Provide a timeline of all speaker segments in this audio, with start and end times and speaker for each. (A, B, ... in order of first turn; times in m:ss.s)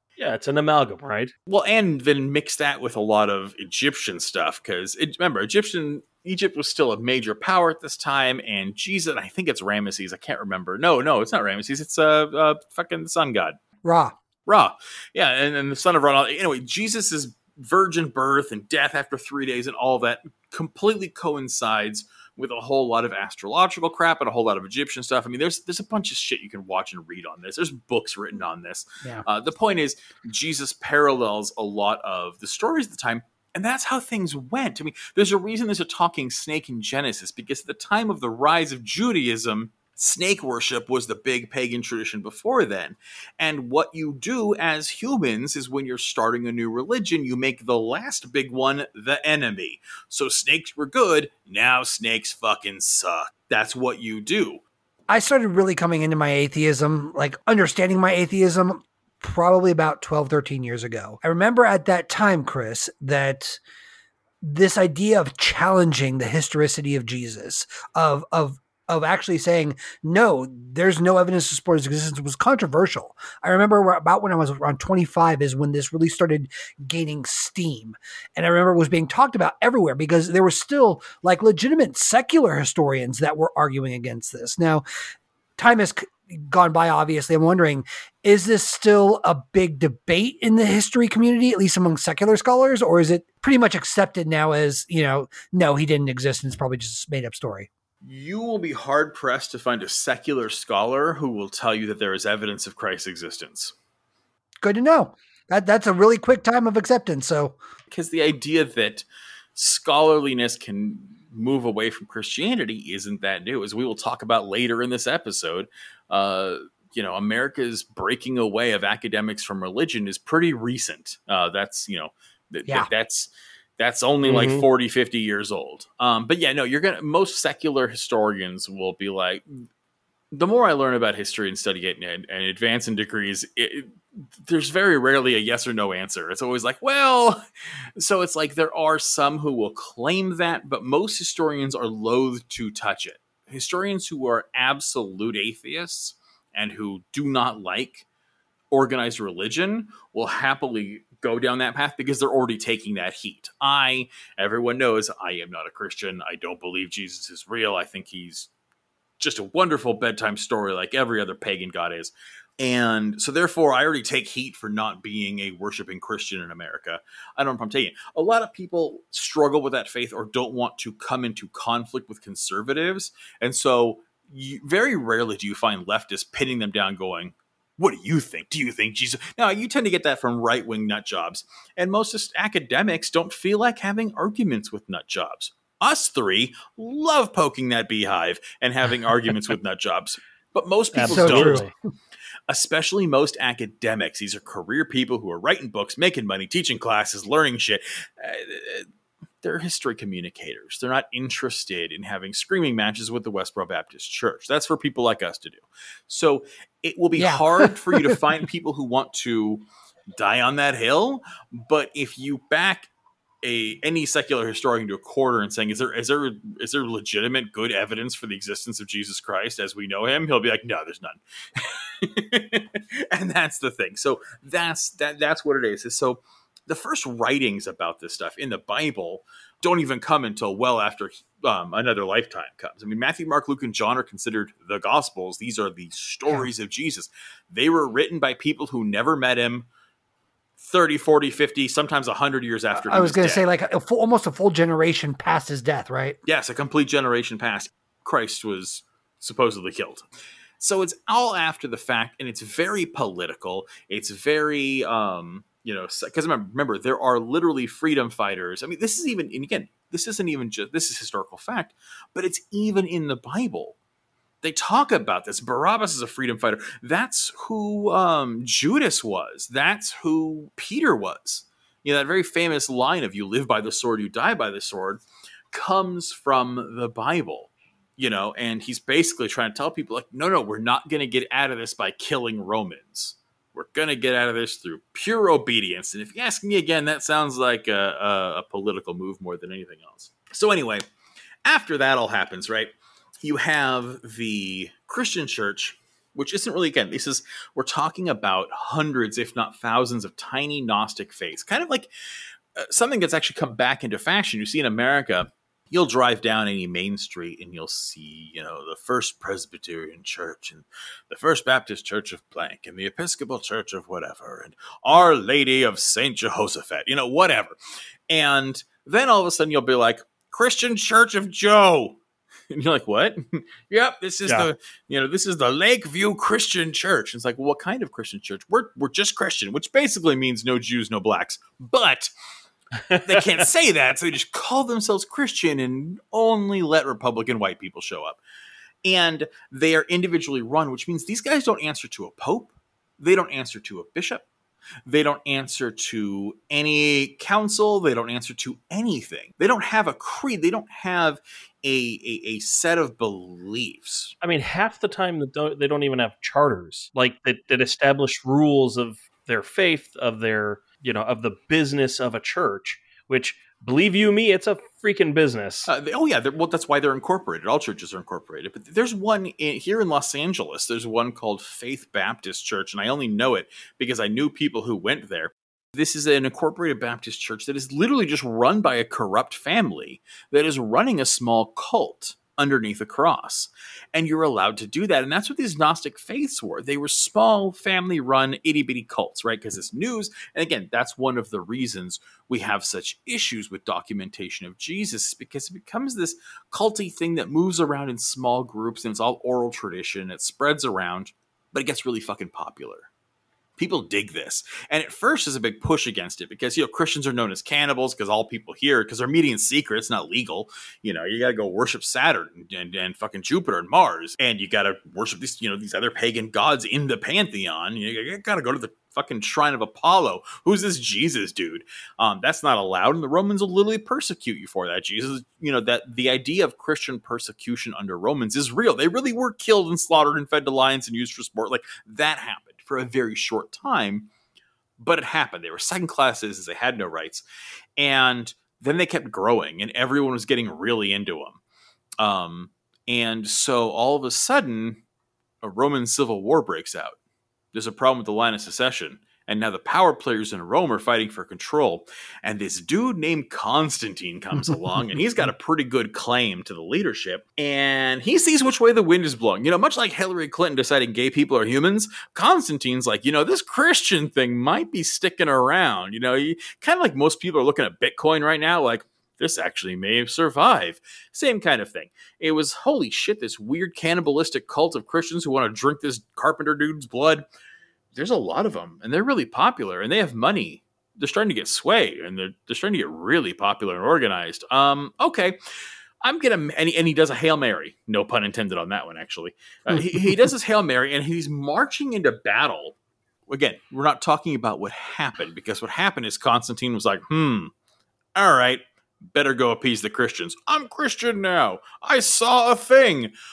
0:00.2-0:01.3 A
0:01.5-0:13.6 B
0:13.8-0:14.2 C
0:14.4-0:54.6 B
0:55.1-1:03.6 C
1:04.4-1:24.8 C
1:25.6-1:37.7 C
1:38.0-1:43.7 B
1:44.6-1:47.6 C
1:47.9-2:09.6 B
2:04.2-2:04.6 A
2:10.3-2:17.4 B
2:18.0-2:28.0 B
2:28.7-2:38.5 B
2:39.2-3:11.6 B
3:11.0-3:11.7 A
3:11.0-3:11.7 C
3:12.5-3:18.9 B
3:19.4-3:32.9 B
3:27.2-3:28.2 C
3:33.4-3:59.7 B
4:00.6-4:03.4 B
4:02.7-4:06.2 C
4:06.2-4:10.1 B
4:10.6-4:23.8 B
4:24.4-4:50.8 B
4:51.4-5:01.9 B
5:02.5-5:17.5 B
5:18.1-5:32.1 B
5:32.9-5:33.2 A
5:33.0-5:38.2 B
5:38.8-5:44.3 B
5:44.8-5:54.1 B
5:54.2-6:05.7 A
6:05.6-6:42.9 B
6:43.6-7:14.1 B
7:14.8-7:17.2 B
7:17.8-7:21.4 B
7:22.0-7:24.8 B
7:25.4-7:27.0 B
7:27.5-7:57.2 B
7:57.9-8:05.4 B
8:06.0-8:12.8 B
8:13.3-8:17.5 B
8:18.2-8:23.1 B